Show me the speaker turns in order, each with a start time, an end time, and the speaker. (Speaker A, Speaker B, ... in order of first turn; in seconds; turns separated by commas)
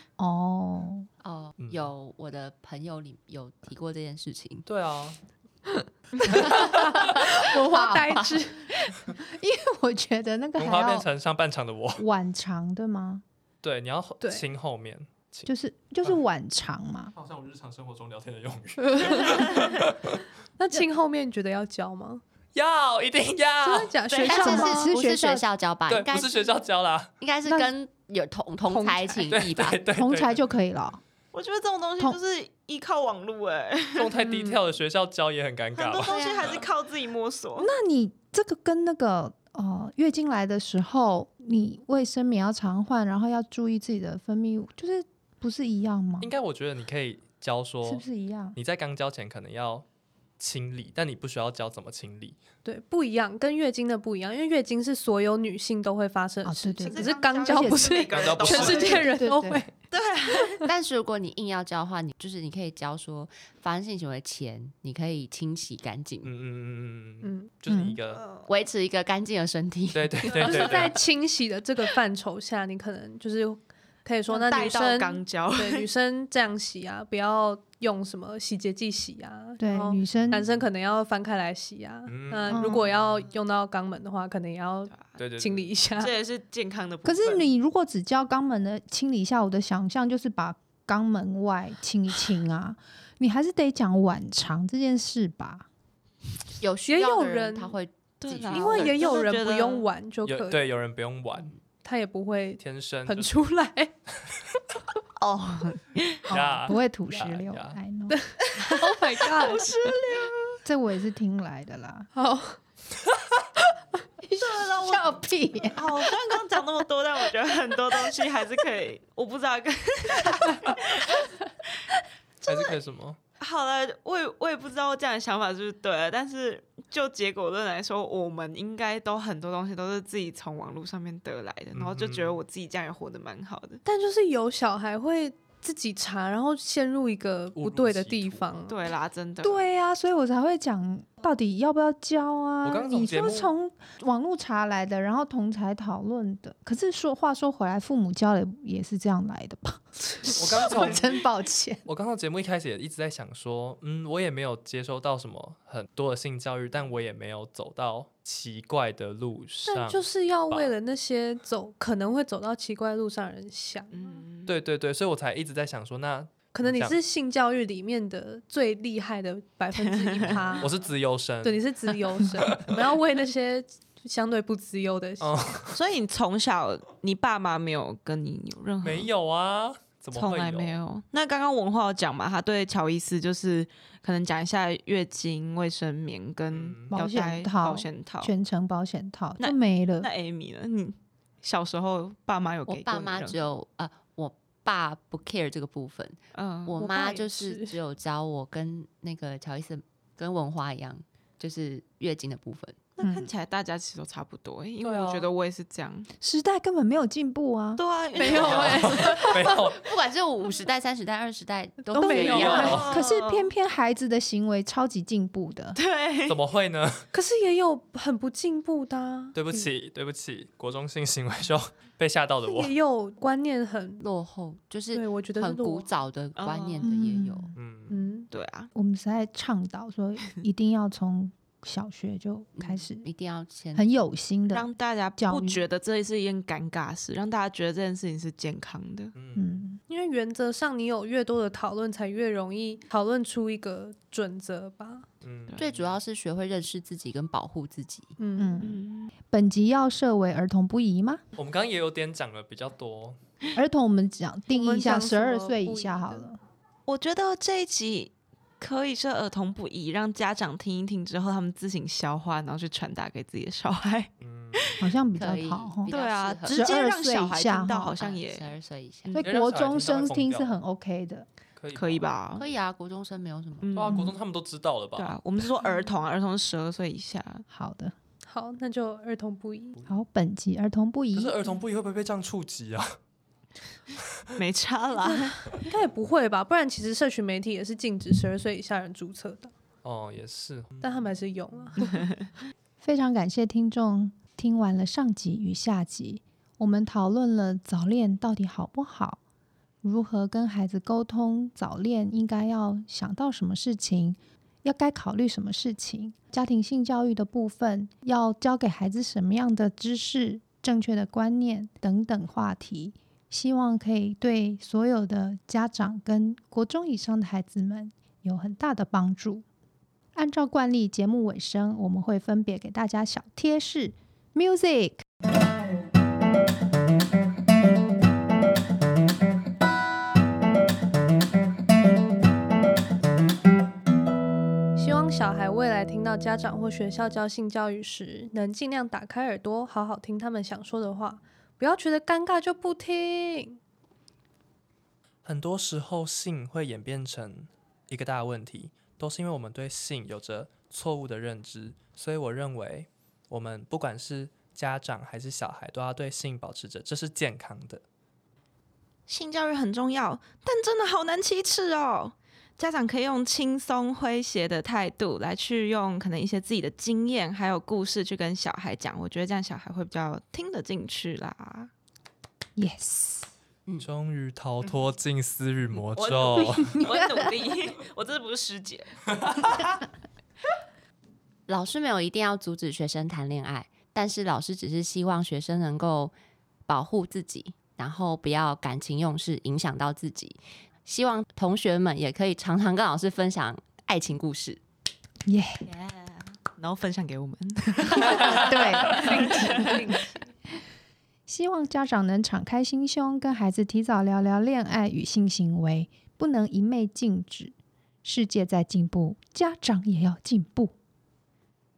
Speaker A: 0.2-1.1, Speaker B: 1.2-4.7, Speaker C: 1.6-1.9, Speaker C: 4.7-5.2, Speaker C: 6.3-7.3, Speaker D: 6.4-8.9, Speaker A: 7.7-8.4, Speaker A: 9.1-11.1, Speaker C: 10.6-12.1, Speaker A: 12.0-13.2, Speaker C: 13.6-15.5, Speaker D: 14.2-14.5, Speaker A: 15.5-17.1, Speaker C: 17.1-20.2, Speaker D: 18.8-19.8, Speaker D: 20.6-22.2, Speaker C: 22.6-24.0, Speaker D: 23.6-24.9, Speaker E: 24.1-24.6, Speaker B: 24.2-26.5, Speaker A: 24.3-25.5, Speaker C: 25.9-27.1, Speaker B: 27.2-29.8, Speaker A: 27.4-27.7, Speaker D: 28.7-29.3, Speaker C: 29.3-30.4, Speaker A: 29.9-31.0, Speaker E: 31.3-34.2, Speaker C: 34.0-36.6, Speaker D: 34.2-34.6, Speaker E: 35.8-37.7, Speaker B: 36.1-36.6, Speaker A: 37.6-46.3, Speaker C: 46.2-48.0, Speaker A: 47.8-48.6, Speaker C: 48.6-49.9, Speaker C: 50.4-52.4, Speaker D: 52.6-59.7, Speaker A: 56.5-58.1, Speaker E: 56.8-59.1, Speaker C: 58.1-59.1, Speaker A: 58.8-59.7, Speaker E: 59.9-60.6, Speaker B: 60.6-66.3, Speaker C: 66.2-68.3, Speaker D: 67.2-67.5, Speaker A: 67.7-68.0, Speaker E: 68.1-68.5, Speaker B: 68.5-70.8, Speaker C: 69.9-71.0, Speaker D: 70.3-86.1, Speaker E: 74.3-75.9, Speaker A: 79.6-80.5, Speaker C: 80.1-80.7, Speaker C: 82.1-83.3, Speaker A: 82.5-82.8, Speaker E: 84.9-85.2, Speaker C: 85.2-85.8, Speaker E: 86.0-87.5, Speaker A: 87.0-95.7, Speaker B: 96.6-99.2, Speaker D: 96.9-97.8, Speaker E: 98.2-99.9, Speaker D: 98.5-100.7, Speaker C: 100.3-101.5, Speaker D: 101.8-103.9, Speaker C: 102.6-103.3, Speaker E: 105.2-106.2, Speaker A: 106.3-108.2, Speaker C: 106.3-107.8, Speaker D: 108.1-110.0, Speaker E: 108.6-110.6, Speaker A: 110.6-112.1, Speaker D: 112.2-112.6, Speaker A: 114.3-115.8, Speaker E: 114.4-115.1, Speaker E: 115.7-121.2, Speaker D: 120.4-120.8, Speaker C: 122.5-123.2, Speaker E: 123.4-133.8, Speaker C: 131.7-132.4, Speaker D: 133.8-138.8, Speaker C: 137.6-138.6, Speaker E: 138.7-139.7, Speaker A: 139.4-151.8, Speaker C: 142.6-143.5, Speaker C: 150.2-151.2, Speaker C: 151.9-160.8, Speaker D: 159.7-164.3, Speaker E: 163.9-164.6, Speaker C: 164.5-167.0, Speaker D: 166.5-170.7, Speaker E: 169.8-170.7, Speaker C: 170.3-172.8, Speaker D: 171.4-175.6, Speaker C: 175.2-175.8, Speaker E: 175.7-179.1, Speaker C: 178.8-180.8, Speaker E: 180.1-188.3, Speaker C: 186.5-187.0, Speaker A: 186.9-190.1, Speaker E: 189.4-193.4, Speaker B: 192.7-202.8, Speaker E: 196.3-196.8, Speaker D: 196.8-197.8, Speaker E: 203.0-206.1, Speaker A: 203.0-203.3, Speaker C: 204.8-205.3, Speaker A: 206.2-207.8, Speaker E: 207.8-209.6, Speaker D: 208.2-209.6, Speaker C: 208.4-209.9, Speaker B: 209.4-212.9, Speaker D: 211.9-212.8, Speaker A: 212.0-215.8, Speaker C: 212.2-213.0, Speaker E: 212.2-213.5, Speaker E: 215.8-216.4, Speaker C: 216.3-217.1, Speaker D: 217.1-219.7, Speaker C: 219.3-222.8, Speaker D: 222.4-224.0, Speaker B: 224.0-227.6, Speaker D: 224.9-225.9, Speaker E: 226.4-226.9, Speaker A: 226.8-227.5, Speaker C: 227.6-228.0, Speaker D: 227.9-228.3, Speaker E: 228.3-228.7, Speaker A: 228.7-233.1, Speaker B: 232.6-233.8, Speaker A: 233.8-235.6, Speaker E: 234.5-239.1, Speaker C: 239.2-239.7, Speaker A: 239.4-239.8, Speaker D: 239.9-245.1, Speaker C: 245.2-246.0, Speaker B: 245.6-248.2, Speaker D: 248.2-248.6, Speaker A: 248.4-248.8, Speaker E: 248.6-249.1, Speaker A: 249.3-251.2, Speaker C: 251.4-253.2, Speaker A: 253.6-256.4, Speaker D: 254.5-256.3, Speaker E: 256.9-264.8, Speaker C: 264.2-264.8, Speaker A: 264.8-265.9, Speaker B: 265.1-266.7, Speaker E: 265.9-268.5, Speaker A: 266.5-267.9, Speaker B: 268.0-269.2, Speaker A: 269.1-271.3, Speaker C: 269.2-270.6, Speaker C: 271.6-272.1, Speaker E: 271.8-272.5, Speaker B: 272.4-273.7, Speaker E: 273.6-274.1, Speaker C: 273.7-275.2, Speaker E: 275.0-277.4, Speaker A: 277.5-277.9, Speaker D: 278.2-279.8, Speaker A: 279.9-281.5, Speaker C: 281.1-283.0, Speaker C: 284.0-284.4, Speaker E: 284.4-285.6, Speaker D: 285.0-289.5, Speaker C: 289.8-291.1, Speaker D: 290.8-292.1, Speaker A: 292.8-299.2, Speaker A: 299.8-319.4, Speaker A: 320.1-325.0, Speaker D: 334.8-343.6, Speaker C: 345.2-357.8, Speaker E: 359.1-371.7, Speaker A: 372.6-373.3, Speaker C: 373.8-376.8, Speaker E: 375.9-379.6, Speaker C: 379.2-379.5, Speaker B: 381.5-386.1, Speaker B: 386.7-394.6, Speaker A: 395.3-395.7, Speaker E: 395.6-399.8, Speaker A: 397.9-399.8, Speaker D: 398.2-400.3, Speaker A: 401.3-410.7